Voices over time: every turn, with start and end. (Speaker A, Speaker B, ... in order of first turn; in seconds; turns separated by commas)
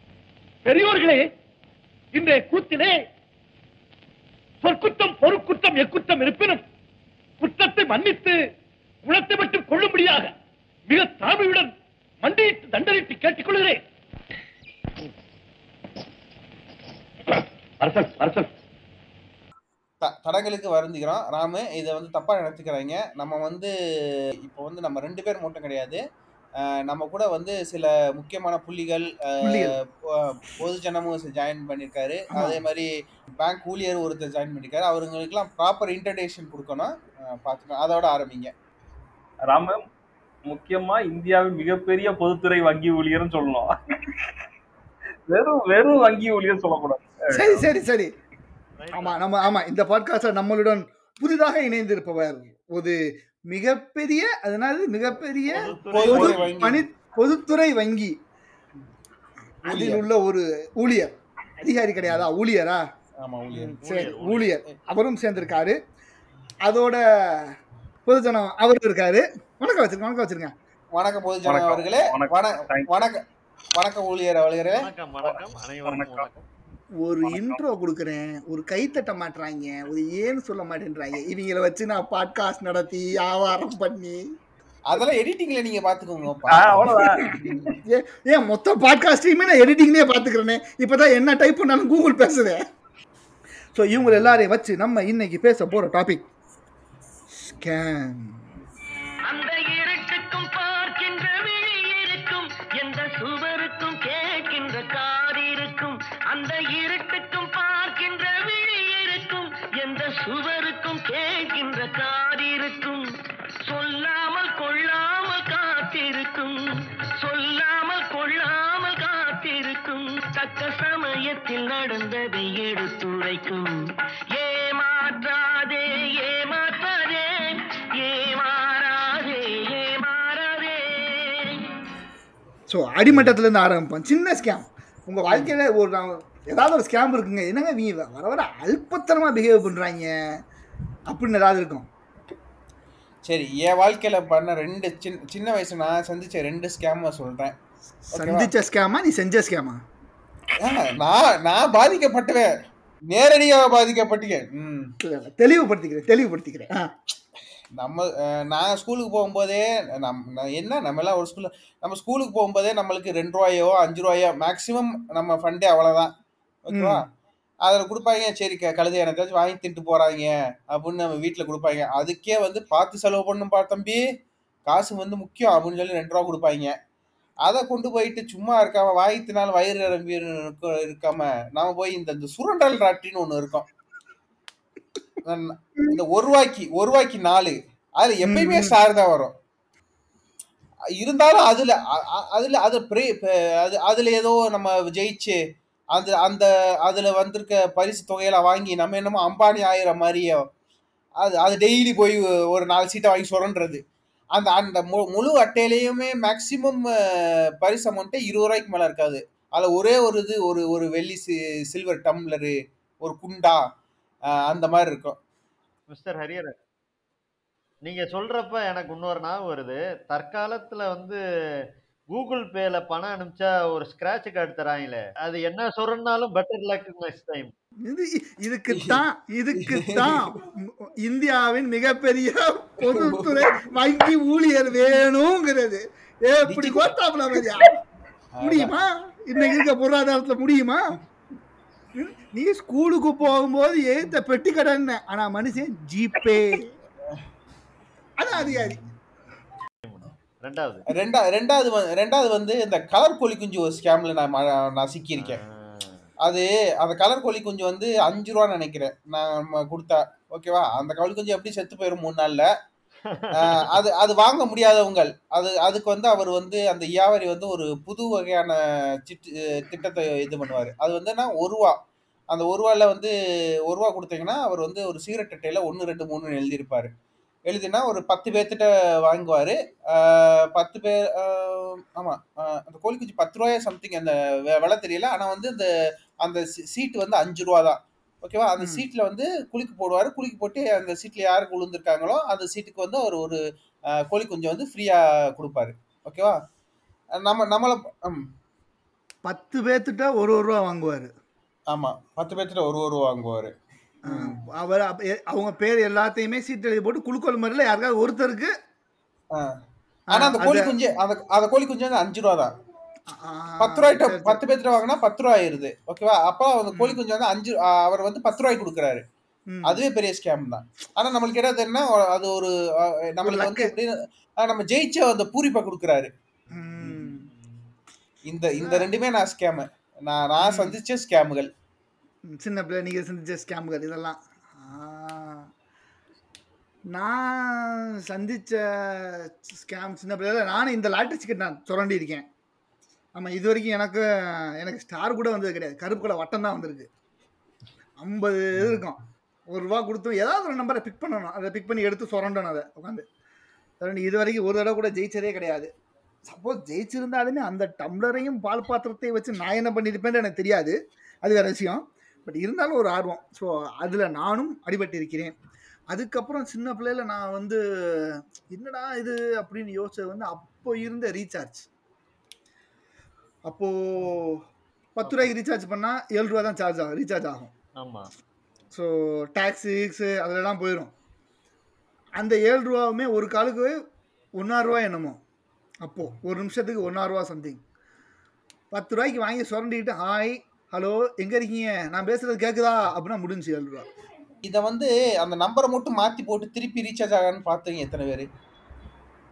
Speaker A: 0.7-1.2, Speaker A: 2.1-3.0, Speaker A: 4.6-6.6, Speaker A: 7.4-8.4, Speaker A: 9.1-10.3, Speaker A: 10.9-13.8, Speaker A: 17.3-18.5, Speaker B: 20.0-23.7, Speaker B: 24.4-26.0, Speaker B: 26.6-32.9, Speaker C: 29.4-29.8, Speaker C: 32.3-32.6, Speaker B: 33.4-38.5, Speaker D: 39.5-39.8, Speaker D: 40.5-44.4, Speaker D: 45.3-47.7, Speaker C: 47.3-48.1, Speaker E: 48.8-49.2, Speaker C: 49.0-58.2, Speaker E: 55.5-56.5, Speaker B: 55.9-56.9, Speaker C: 59.6-61.1, Speaker B: 59.7-60.0, Speaker C: 61.6-62.8, Speaker B: 63.2-63.8, Speaker C: 63.5-65.8, Speaker E: 63.8-64.6, Speaker C: 66.7-67.5, Speaker C: 68.1-70.5, Speaker B: 71.0-73.2, Speaker D: 71.5-73.0, Speaker B: 73.8-74.9, Speaker E: 74.8-76.5, Speaker D: 75.3-76.3, Speaker C: 77.0-84.2, Speaker D: 77.2-77.6, Speaker B: 84.9-87.8, Speaker D: 86.5-87.3, Speaker C: 87.2-92.6, Speaker C: 93.7-96.3, Speaker C: 97.4-98.4, Speaker F: 99.3-113.1, Speaker F: 113.7-116.6, Speaker F: 117.2-123.8, Speaker F: 124.3-131.6, Speaker C: 132.7-140.1, Speaker B: 133.1-133.3, Speaker C: 141.1-141.9, Speaker B: 143.3-147.6, Speaker C: 148.1-149.8, Speaker B: 148.1-148.5, Speaker B: 150.6-152.5, Speaker B: 153.1-154.9, Speaker C: 155.0-157.1, Speaker B: 157.8-166.1, Speaker B: 166.7-167.1, Speaker C: 166.7-167.0, Speaker B: 167.7-174.0, Speaker B: 174.7-176.8, Speaker B: 177.4-183.7, Speaker B: 185.2-189.4, Speaker C: 188.3-188.7, Speaker B: 191.0-195.4, Speaker B: 195.9-200.5, Speaker B: 201.2-203.8, Speaker B: 204.3-213.6, Speaker B: 214.5-215.2, Speaker E: 215.9-216.6, Speaker E: 217.8-221.2, Speaker E: 222.1-227.5, Speaker C: 227.8-237.8, Speaker B: 228.7-229.0, Speaker B: 229.6-230.4, Speaker B: 232.8-233.6, Speaker B: 236.5-237.7, Speaker B: 238.4-238.7, Speaker C: 238.4-240.8, Speaker C: 242.0-246.7, Speaker C: 248.2-248.8, Speaker B: 248.3-248.9, Speaker E: 249.8-250.8, Speaker B: 250.9-255.4, Speaker E: 255.2-256.1, Speaker B: 256.2-262.5, Speaker E: 263.1-263.5, Speaker B: 263.4-271.8, Speaker B: 272.3-273.1, Speaker B: 273.7-276.9, Speaker B: 277.5-285.7, Speaker B: 286.2-293.4, Speaker C: 288.6-288.9, Speaker B: 294.0-296.4, Speaker B: 297.2-298.3, Speaker C: 299.3-301.1, Speaker B: 301.7-303.5, Speaker B: 304.1-304.4, Speaker C: 304.1-308.5, Speaker B: 309.3-309.6, Speaker B: 310.1-312.5, Speaker C: 310.1-310.7, Speaker C: 313.1-314.4, Speaker B: 313.6-319.0, Speaker C: 319.5-319.8, Speaker B: 319.7-326.1, Speaker C: 323.2-323.7, Speaker C: 326.5-327.3, Speaker B: 326.8-327.5, Speaker B: 328.3-331.5, Speaker C: 328.6-328.9, Speaker C: 330.4-330.8, Speaker C: 332.3-335.5, Speaker C: 336.9-342.3, Speaker C: 343.2-346.9, Speaker C: 348.0-353.1, Speaker C: 353.8-355.7, Speaker C: 356.3-365.3, Speaker C: 365.9-371.7, Speaker C: 373.5-374.4, Speaker C: 375.0-377.5, Speaker E: 377.8-378.1, Speaker C: 378.7-380.9, Speaker C: 382.2-383.7, Speaker C: 384.4-385.2, Speaker C: 385.8-387.6, Speaker C: 388.7-393.9, Speaker B: 394.4-398.3